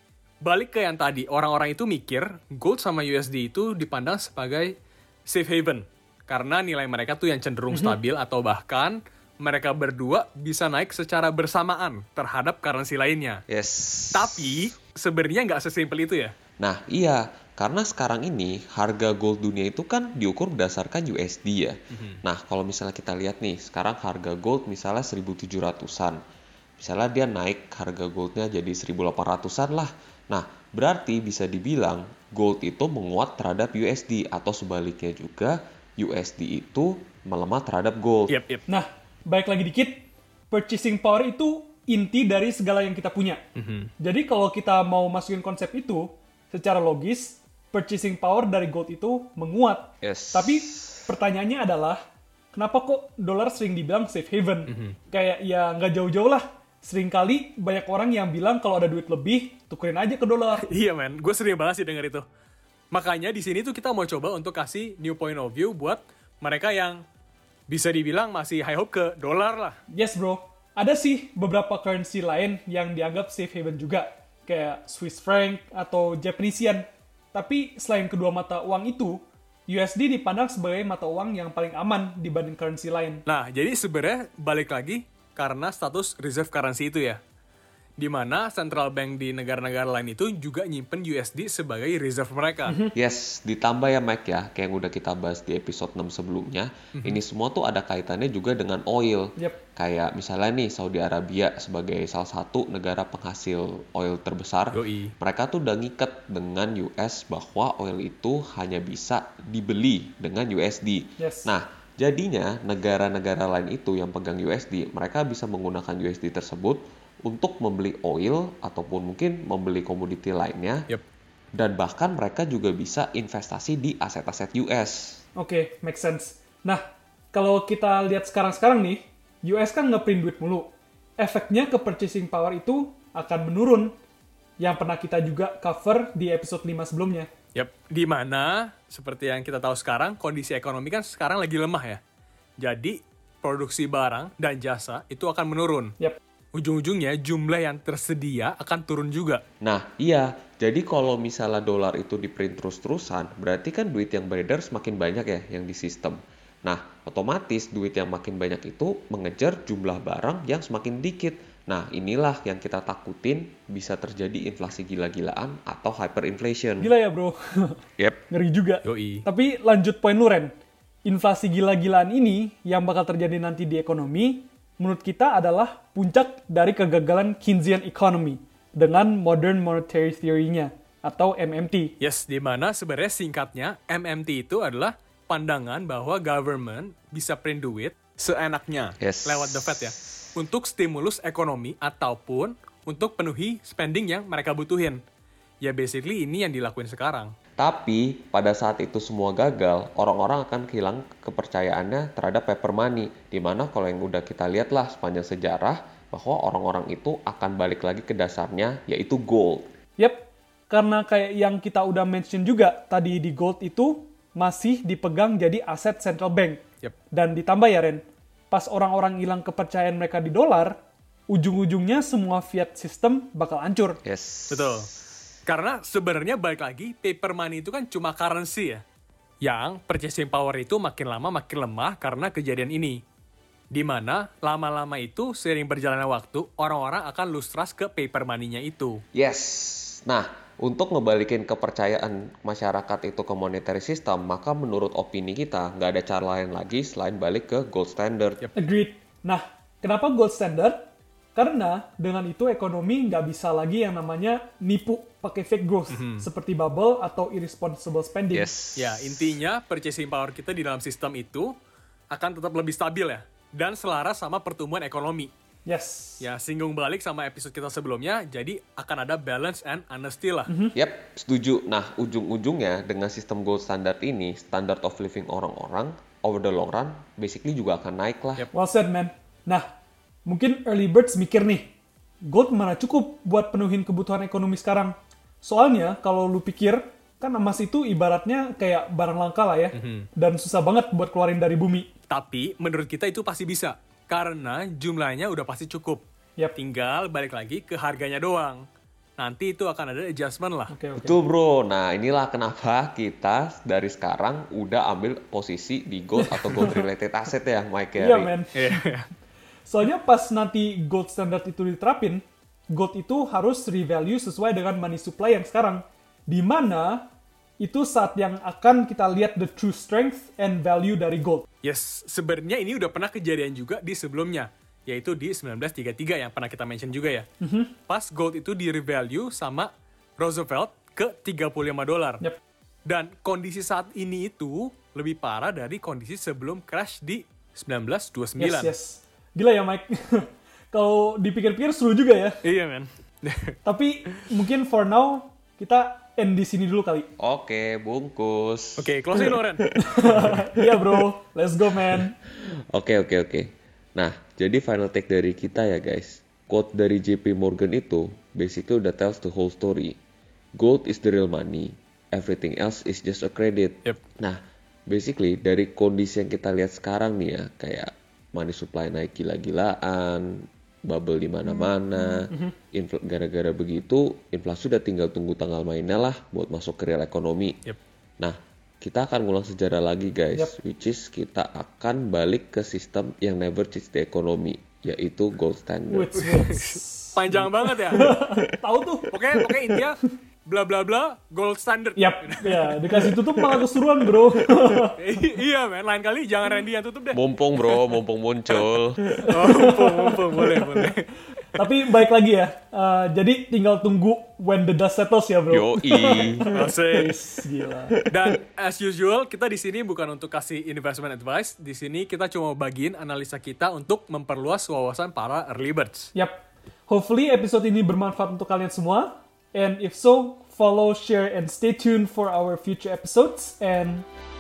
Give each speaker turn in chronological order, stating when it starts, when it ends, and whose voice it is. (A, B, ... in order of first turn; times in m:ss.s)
0:00.4-0:04.7 A
0:05.3-0:13.4 A
0:07.7-0:08.0 B
0:13.5-0:14.6 C
0:14.1-0:16.4 A
0:16.6-0:26.2 C
0:21.9-0:22.2 A
0:26.8-0:38.3 C
0:38.3-0:38.6 A
0:38.7-0:43.4 B
0:43.6-0:43.9 A
0:44.0-0:52.0 B
0:50.0-0:51.1 C
0:52.5-1:00.7 B
0:54.7-0:55.0 A
1:00.6-1:02.2 A
1:02.9-1:07.0 A
1:07.7-1:09.8 A
1:09.9-1:23.2 B
1:23.3-1:27.2 A
1:28.0-1:32.8 A
1:32.7-1:32.9 B
1:32.9-2:00.9 C
1:37.0-1:37.2 A
1:39.4-1:39.6 B
1:44.7-1:45.1 A
1:51.2-1:51.5 B
2:01.6-2:05.2 C
2:05.4-2:13.9 B
2:14.6-2:17.3 B
2:17.6-2:22.0 A
2:22.6-2:25.9 A
2:26.6-2:29.4 A
2:29.6-2:46.9 C
2:46.8-2:50.5 B
2:48.8-2:49.2 A
2:51.1-3:01.9 B
3:02.0-3:15.0 A
3:09.0-3:09.9 C
3:15.6-3:17.3 A
3:17.6-3:29.7 C
3:30.0-3:36.6 B
3:37.1-3:40.8 B
3:41.3-3:44.0 B
3:44.0-3:44.8 C
3:44.5-3:44.9 A
3:45.5-3:48.8 A
3:49.4-3:53.0 A
3:53.7-3:59.0 A
3:59.1-4:08.4 C
4:08.6-4:10.8 B
4:11.4-4:18.5 B
4:15.9-4:16.2 A
4:18.3-4:19.4 C
4:18.8-4:21.5 A
4:22.1-4:25.3 A
4:25.7-4:26.2 B
4:26.2-4:30.5 A
4:30.5-4:30.8 B
4:30.8-4:38.5 C
4:38.5-4:39.7 B
4:40.3-4:41.7 B
4:42.2-4:51.9 B
4:49.7-4:50.1 A
4:52.1-4:56.0 A
4:56.6-4:58.6 A
4:59.2-5:00.7 A
5:00.7-5:01.2 B
5:01.0-5:08.3 C
5:06.2-5:06.8 B
5:08.0-5:08.8 B
5:08.6-5:09.1 A
5:09.7-5:17.0 B
5:17.6-5:21.5 B
5:21.6-5:27.3 A
5:27.4-5:27.7 B
5:27.9-5:32.2 A
5:32.9-5:38.7 A
5:38.4-5:42.4 B
5:42.4-5:43.6 A
5:43.6-5:47.1 B
5:47.2-5:49.4 C
5:48.8-5:49.6 A
5:49.8-5:52.2 B
5:52.2-6:00.0 C
6:00.6-6:17.6 C
6:18.2-6:26.2 C
6:25.9-6:29.2 B
6:26.2-6:28.2 A
6:29.1-6:33.6 A
6:29.8-6:30.1 B
6:32.0-6:35.0 B
6:34.7-6:37.2 A
6:37.1-6:39.2 C
6:39.1-6:40.9 B
6:39.3-6:41.1 A
6:41.5-6:48.0 B
6:45.5-6:46.5 C
6:46.5-6:47.2 A
6:48.1-6:56.1 A
6:56.1-7:04.1 B